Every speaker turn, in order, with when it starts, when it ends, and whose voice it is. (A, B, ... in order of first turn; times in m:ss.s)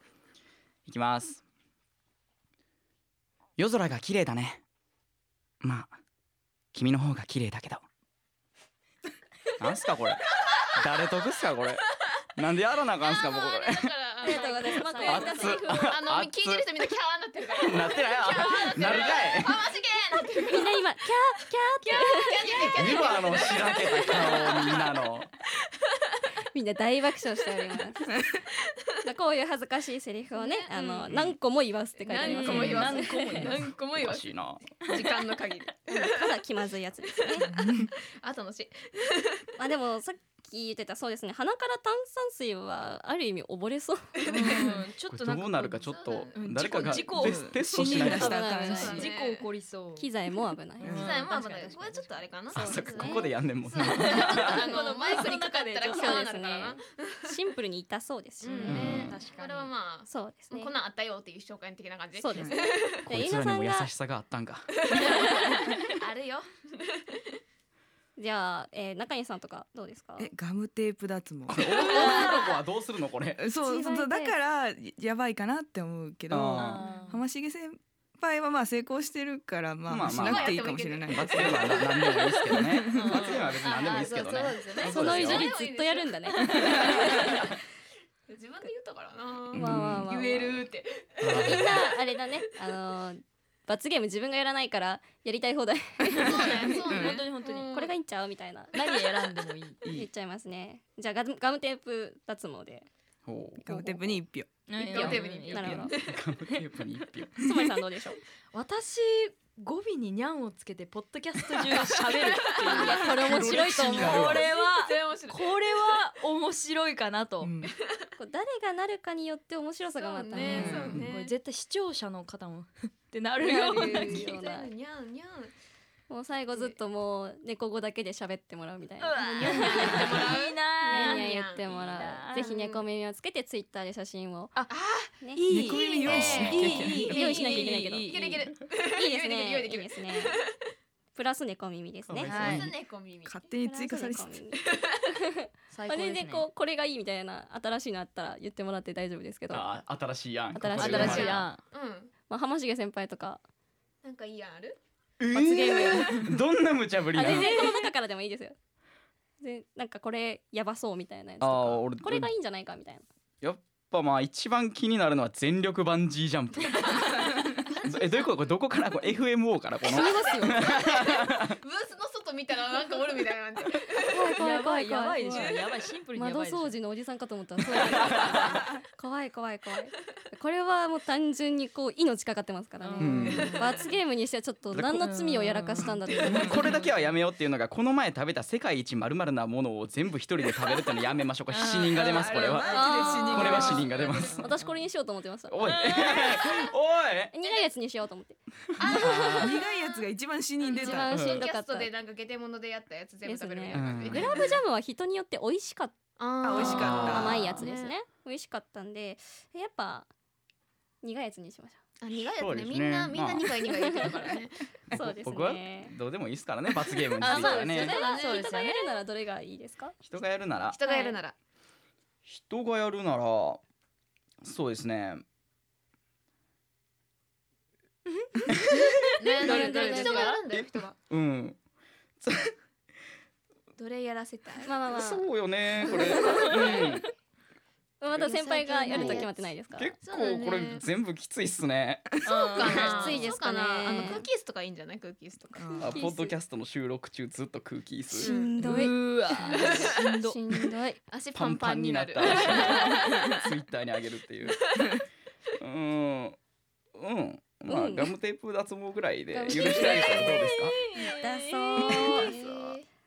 0:00.9-0:01.4 A
0:03.6-0:04.6 A
0:05.6-0:05.9 A
0:06.7-0:07.8 A
0:09.6-0:11.8 A
0:10.3-0:11.2 B
0:12.4-0:14.0 A
0:13.0-0:20.8 B
0:14.2-0:15.9 C
0:14.3-0:15.2 D
0:14.9-0:16.7 A
0:17.5-0:19.7 A
0:20.5-0:23.0 C
0:21.8-0:25.0 B
0:22.7-0:25.3 A
0:26.5-0:28.1 C
0:29.0-0:33.2 C
0:30.4-0:31.2 B
0:32.0-0:36.4 B
0:32.2-0:33.6 D
0:32.5-0:32.9 A
0:34.0-0:34.6 A
0:34.9-0:35.4 D
0:35.9-0:37.5 C
0:37.3-0:39.4 B
0:37.6-0:37.9 E
0:39.6-0:44.1 C
0:44.2-0:44.8 B
0:44.3-0:50.1 D
0:45.1-0:48.6 A
0:45.9-0:47.0 B
0:47.1-0:49.1 E
0:47.9-0:49.1 C
0:48.7-0:49.4 B
0:50.0-0:51.0 C
0:50.8-0:52.2 D
0:50.8-0:51.2 E
0:50.9-0:57.3 B
0:52.5-0:54.6 A
0:52.5-0:53.3 C
0:53.8-0:56.3 D
0:55.9-0:58.9 C
0:58.4-0:59.7 D
0:58.4-1:03.1 B
0:58.7-0:59.2 A
1:00.1-1:00.7 C
1:02.2-1:03.9 C
1:03.1-1:04.8 A
1:04.8-1:07.2 B
1:05.0-1:05.3 C
1:08.2-1:10.3 C
1:10.2-1:11.7 E
1:11.5-1:13.4 A
1:11.8-1:12.4 C
1:11.9-1:12.4 B
1:13.4-1:21.9 E
1:13.6-1:14.3 C
1:16.3-1:16.8 A
1:16.5-1:17.2 D
1:19.9-1:25.5 A
1:20.0-1:22.4 B
1:22.5-1:23.2 E
1:22.9-1:25.0 D
1:23.2-1:27.6 B
1:24.8-1:27.4 C
1:28.3-1:32.0 B
1:29.5-1:30.1 E
1:29.5-1:30.6 C
1:31.2-1:31.7 A
1:31.3-1:36.7 C
1:36.2-1:37.7 D
1:36.2-1:37.9 B
1:36.9-1:37.2 E
1:37.7-1:38.8 C
1:38.7-1:39.8 D
1:39.9-1:42.9 C
1:43.3-1:43.6 A
1:43.6-1:44.5 E
1:43.7-1:44.1 C
1:44.7-1:45.9 D
1:44.8-1:46.2 B
1:44.9-1:46.0 C
1:45.9-1:47.5 A
1:47.4-1:48.2 C
1:48.5-1:57.5 D
1:51.8-1:53.2 B
1:52.7-1:54.4 C
1:53.1-1:54.5 A
1:54.3-1:55.7 B
1:57.4-1:57.7 E
1:58.2-2:00.9 C
2:00.0-2:01.4 B
2:00.4-2:01.1 E
2:00.4-2:04.4 D
2:03.4-2:04.7 C
2:03.6-2:05.5 B
2:06.1-2:10.2 C
2:09.0-2:12.5 D
2:09.2-2:11.6 B
2:10.8-2:14.5 C
2:12.4-2:12.8 B
2:14.7-2:20.5 B
2:15.4-2:17.2 E
2:15.4-2:18.4 D
2:16.3-2:18.2 C
2:19.0-2:20.4 C
2:21.2-2:22.4 C
2:22.1-2:22.7 A
2:22.2-2:22.7 D
2:22.4-2:23.4 B
2:23.2-2:24.4 E
2:23.6-2:24.6 C
2:25.7-2:26.5 D
2:25.9-2:29.7 C
2:29.5-2:31.5 A
2:30.5-2:31.5 C
2:30.8-2:31.6 D
2:30.8-2:32.1 B
2:32.3-2:33.4 C
2:34.0-2:34.8 B
2:35.2-2:37.7 A
2:35.3-2:36.2 C
2:37.1-2:38.6 C
2:39.4-2:43.0 C
2:41.4-2:42.3 A
2:43.4-2:47.2 A
2:47.6-2:48.4 B
2:47.9-2:51.6 A
2:49.8-2:54.3 B
2:49.9-2:50.6 C
2:54.1-2:55.5 C
2:54.4-2:56.8 D
2:56.2-3:06.6 C
2:57.9-2:58.4 A
3:02.8-3:03.9 D
3:03.0-3:03.5 A
3:03.4-3:03.8 B
3:04.7-3:05.0 A
3:05.0-3:07.1 D
3:06.2-3:14.5 A
3:11.5-3:14.8 D
3:12.0-3:13.9 E
3:12.7-3:13.8 C
3:14.4-3:15.7 C
3:15.5-3:17.3 A
3:15.6-3:16.4 D
3:17.3-3:18.4 C
3:17.4-3:17.7 B
3:18.8-3:20.0 B
3:18.9-3:19.5 A
3:19.0-3:19.4 C
3:19.3-3:21.1 E
3:20.6-3:24.6 B
3:20.7-3:21.9 C
3:21.1-3:21.5 A
3:23.2-3:26.0 C
3:23.7-3:24.5 A
3:26.2-3:27.9 B
3:26.4-3:27.5 E
3:26.5-3:30.1 C
3:26.8-3:27.6 A
3:31.0-3:31.8 C
3:32.0-3:34.7 B
3:32.4-3:33.5 A
3:33.7-3:34.1 C
3:34.9-3:38.0 A
3:34.9-3:35.9 C
3:37.2-3:38.9 D
3:37.2-3:40.0 C
3:37.2-3:38.5 B
3:40.0-3:40.8 A
3:40.7-3:41.4 B
3:40.8-3:41.2 C
3:42.3-3:43.6 A
3:44.4-3:45.2 A
3:48.7-3:51.0 B
3:49.0-3:50.4 D
3:49.4-3:50.4 C
3:50.5-3:51.6 A
3:52.2-3:52.5 A
3:53.8-3:54.9 B
3:54.6-3:55.3 C
3:54.9-3:57.1 A
3:55.8-3:56.8 C
3:56.1-3:56.8 B
3:58.0-3:59.9 C
3:58.2-3:59.5 B
3:58.9-3:59.2 A
3:59.7-4:02.3 A
4:00.0-4:00.9 B
4:02.2-4:03.2 D
4:02.2-4:06.0 B
4:02.7-4:04.3 C
4:05.6-4:05.9 E
4:05.8-4:08.3 A
4:05.9-4:06.4 C
4:08.1-4:11.0 C
4:08.2-4:08.6 B
4:08.6-4:10.4 D
4:09.5-4:09.9 B
4:11.1-4:13.5 B
4:11.4-4:14.6 A
4:15.6-4:16.4 A
4:17.0-4:20.8 A
4:17.7-4:18.1 C
4:19.3-4:20.6 C
4:19.8-4:22.1 D
4:21.1-4:22.7 C
4:21.9-4:22.9 B